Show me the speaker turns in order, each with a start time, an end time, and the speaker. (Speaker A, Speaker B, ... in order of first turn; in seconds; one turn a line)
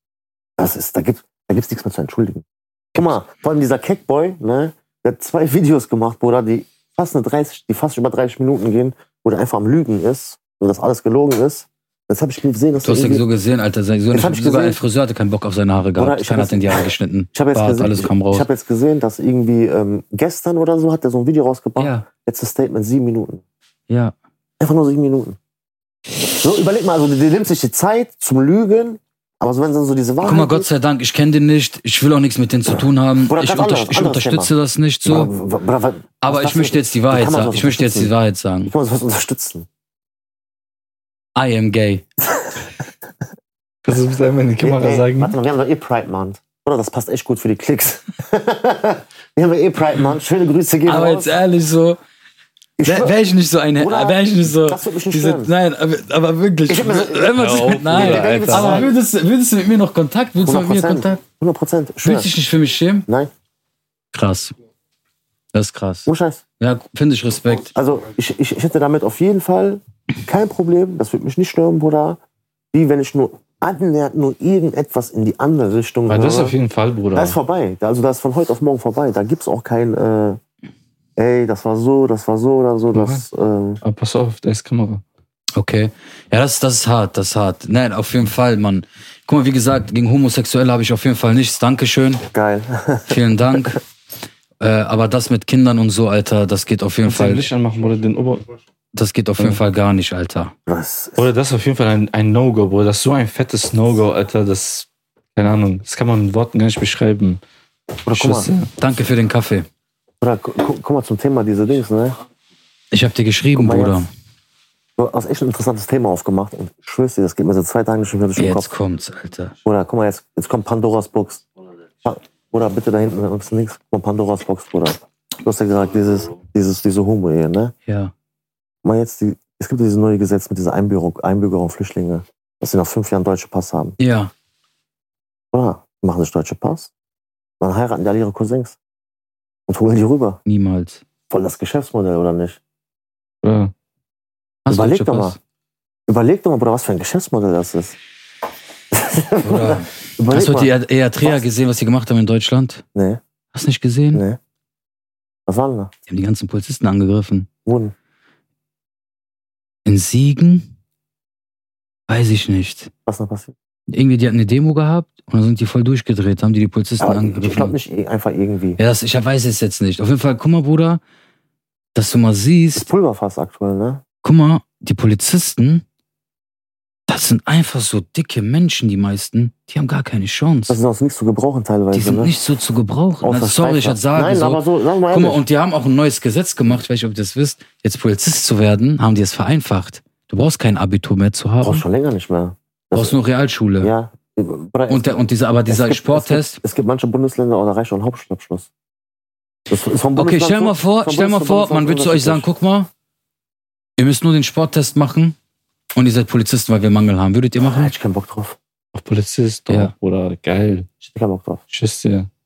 Speaker A: 0.6-13.2
Speaker B: 12.8-18.5
Speaker A: 14.1-14.8
Speaker A: 16.0-23.4
Speaker B: 21.8-22.1
Speaker B: 23.9-24.1
Speaker A: 24.6-25.4
Speaker A: 26.3-30.7
Speaker B: 30.2-35.3
Speaker A: 33.2-34.5
Speaker A: 35.0-38.1
Speaker B: 36.2-38.7
Speaker A: 38.7-39.7
Speaker B: 41.3-42.0
Speaker C: 43.8-45.4
Speaker A: 44.6-51.4
Speaker B: 50.9-52.0
Speaker A: 52.8-53.1
Speaker B: 52.8-61.2
Speaker A: 53.8-55.5
Speaker A: 56.7-58.9
Speaker C: 57.4-58.9
Speaker A: 60.4-62.3
Speaker B: 62.0-63.1
Speaker B: 64.1-64.5
Speaker B: 65.5-66.1
Speaker A: 66.0-66.4
Speaker B: 66.6-67.7
Speaker A: 67.7-72.2
Speaker A: 72.7-76.5
Speaker C: 76.1-77.4
Speaker A: 77.1-80.4
Speaker A: 81.2-83.8
Speaker C: 82.9-83.2
Speaker C: 83.8-85.0
Speaker B: 85.5-92.2
Speaker A: 92.3-93.8
Speaker B: 93.1-93.8
Speaker B: 94.6-97.5
Speaker C: 97.0-98.4
Speaker B: 98.9-100.5
Speaker A: 100.7-101.3
Speaker C: 101.2-107.4
Speaker A: 108.0-108.5
Speaker C: 108.1-108.7
Speaker B: 108.8-109.7
Speaker A: 110.2-112.2
Speaker B: 112.9-114.1
Speaker A: 113.5-114.0
Speaker A: 115.0-118.7
Speaker B: 118.4-119.5
Speaker A: 119.6-121.4
Speaker A: 122.0-127.7
Speaker B: 127.9-128.1
Speaker A: 128.8-133.9
Speaker B: 134.0-134.3
Speaker A: 135.5-136.9
Speaker A: 137.6-138.8
Speaker A: 139.7-140.4
Speaker B: 140.4-141.0
Speaker A: 141.3-142.6
Speaker C: 143.4-143.7
Speaker B: 144.7-145.4
Speaker A: 144.7-145.4
Speaker A: 146.1-147.9
Speaker A: 148.9-150.7
Speaker B: 149.4-152.8
Speaker A: 152.9-153.2
Speaker B: 153.5-154.2
Speaker A: 154.1-154.4
Speaker A: 155.5-155.9
Speaker B: 156.1-157.5
Speaker A: 157.7-157.9
Speaker B: 159.8-160.7
Speaker B: 162.1-162.9
Speaker A: 163.1-163.6
Speaker B: 163.9-167.7
Speaker A: 167.0-168.8
Speaker B: 168.8-171.0
Speaker B: 171.9-172.9
Speaker A: 172.7-174.0
Speaker B: 174.2-175.8
Speaker B: 177.1-180.8
Speaker A: 180.7-182.3
Speaker B: 181.9-191.8
Speaker A: 183.2-185.4
Speaker A: 191.6-193.2
Speaker B: 192.9-193.9
Speaker A: 193.8-198.7
Speaker B: 194.9-196.6
Speaker A: 199.7-202.5
Speaker B: 200.1-202.9
Speaker B: 204.0-205.3
Speaker B: 205.9-207.9
Speaker A: 207.6-208.6
Speaker C: 208.9-210.9
Speaker A: 211.1-211.6
Speaker C: 211.7-212.3